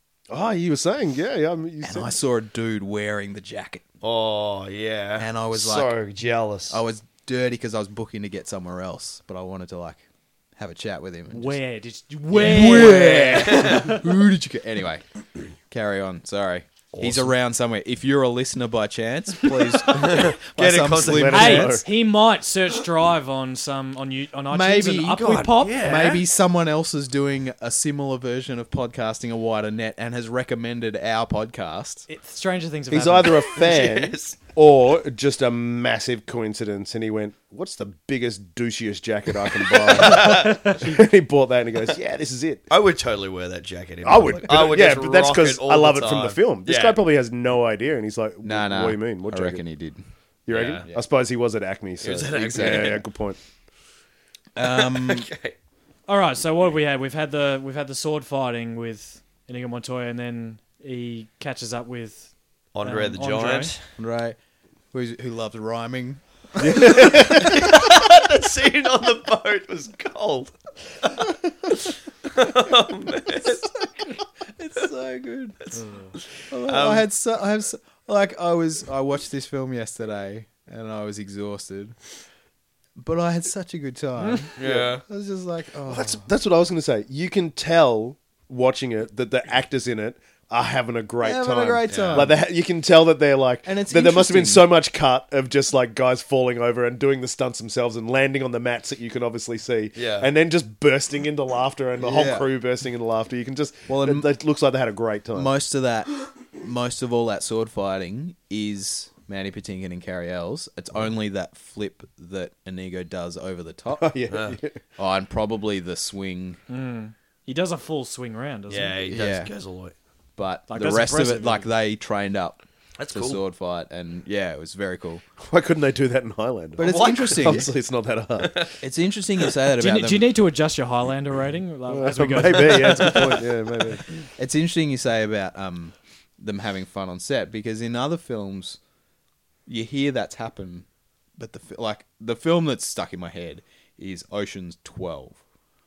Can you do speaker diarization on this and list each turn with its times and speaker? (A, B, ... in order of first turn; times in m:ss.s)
0:00.3-0:02.1 A
0:01.8-0:03.8 B
0:04.0-0:06.8 C
0:05.2-0:06.0 B
0:06.7-0:10.0 B
0:10.6-0:11.6 B
0:11.3-0:14.0 D
0:12.3-0:15.0 B
0:12.3-0:14.0 C
0:15.7-0:21.8 B
0:16.9-0:17.3 C
0:19.9-0:21.7 C
0:21.0-0:21.9 A
0:21.3-0:25.9 D
0:24.5-0:32.1 B
0:25.1-0:26.2 C
0:32.1-0:33.5 D
0:32.9-0:42.6 A
0:33.2-0:34.4 C
0:39.7-0:40.6 C
0:40.1-0:41.0 D
0:42.7-0:47.0 C
0:44.0-0:49.6 A
0:48.4-0:50.0 B
0:50.5-0:53.4 A
0:50.5-0:50.9 C
0:52.0-0:53.1 C
0:52.4-0:53.0 B
0:54.6-0:55.3 B
0:54.6-0:55.6 C
0:56.1-1:03.7 D
1:02.7-1:03.8 C
1:04.0-1:04.4 B
1:04.9-1:07.6 B
1:06.6-1:07.6 A
1:06.8-1:13.8 C
1:13.4-1:15.8 B
1:15.8-1:16.1 D
1:16.5-1:22.0 B
1:16.7-1:17.0 C
1:23.0-1:26.3 B
1:24.6-1:25.0 C
1:24.6-1:24.9 A
1:25.9-1:45.5 A
1:31.2-1:32.4 B
1:31.9-1:32.3 C
1:33.6-1:34.7 B
1:40.0-1:40.3 C
1:42.0-1:42.5 B
1:43.9-1:44.3 B
1:45.3-1:54.2 B
1:54.0-1:54.8 A
1:54.3-1:54.6 C
1:55.0-1:56.6 B
1:56.7-1:59.0 D
1:58.7-2:00.0 C
1:59.1-1:59.5 B
2:00.4-2:05.2 B
2:00.7-2:01.7 D
2:03.0-2:03.4 C
2:05.4-2:08.7 A
2:06.8-2:07.7 B
2:06.8-2:07.7 C
2:08.4-2:08.8 C
2:08.8-2:10.3 B
2:09.8-2:13.4 D
2:11.9-2:14.0 A
2:14.2-2:18.8 B
2:19.7-2:25.4 B